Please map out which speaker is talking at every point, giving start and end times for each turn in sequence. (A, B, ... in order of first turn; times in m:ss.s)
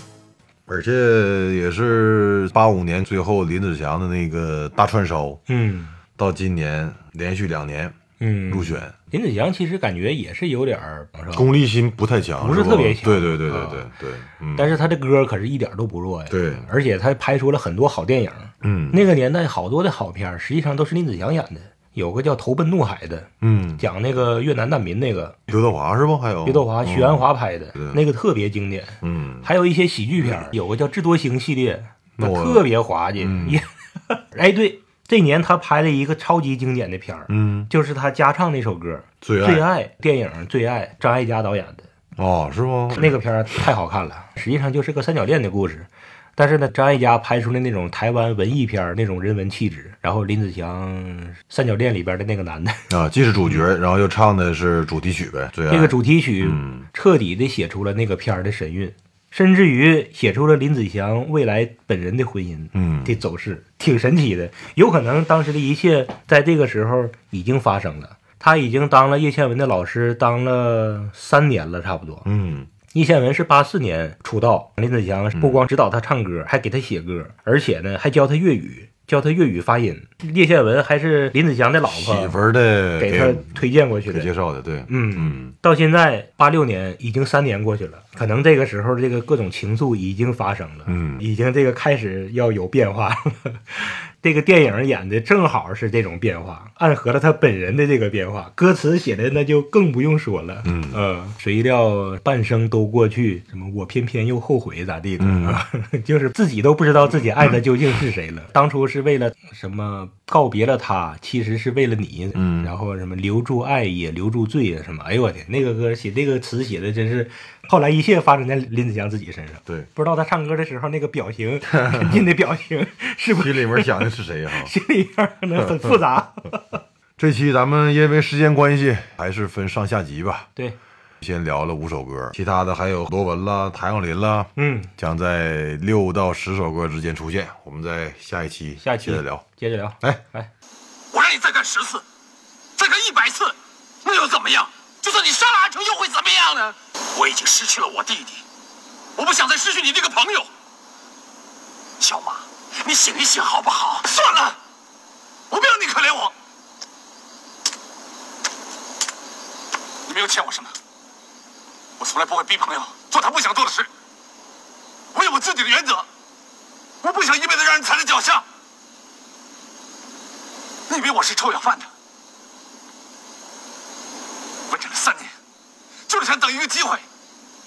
0:00.7-0:05.4 A
0:05.5-0:06.0 B
0:06.2-0:08.0 A
0:08.2-0:11.5 B
0:08.5-0:08.9 A
0:11.3-0:14.8 A
0:12.4-0:13.9 B
0:14.6-0:25.4 B
0:16.3-0:16.6 A
0:18.6-0:19.0 A
0:23.4-0:23.8 A
0:25.5-0:28.0 A
0:26.4-0:41.9 B
0:29.0-0:29.5 A
0:32.2-0:32.6 A
0:33.2-0:33.6 A
0:37.3-0:37.7 A
0:39.2-0:39.6 A
0:42.2-0:43.2 A
0:42.9-0:52.9 B
0:52.9-0:56.9 A
0:55.7-1:12.2 B
1:02.7-1:03.2 A
1:12.2-1:12.7 A
1:12.9-1:22.4 B
1:15.3-1:15.7 A
1:21.9-1:23.6 A
1:23.0-1:24.3 B
1:24.1-1:25.5 A
1:24.9-2:06.8 B
1:30.9-1:31.2 A
1:40.6-1:41.0 A
1:45.2-1:45.6 A
1:52.3-1:52.7 A
2:01.7-2:02.1 A
2:03.3-2:04.7 A
2:07.2-2:10.5 A
2:11.2-2:19.4 A
2:14.6-2:14.9 B
2:18.8-2:20.5 B
2:21.1-2:22.0 C
2:22.8-2:28.4 C
2:29.2-2:30.5 C
2:32.0-2:34.6 C
2:35.5-2:36.3 C
2:40.0-2:40.7 C
2:42.0-2:43.9 C
2:45.1-2:46.0 C
2:47.0-2:48.4 C
2:50.9-2:51.9 C
2:54.7-2:55.3 C
2:56.1-2:57.0 C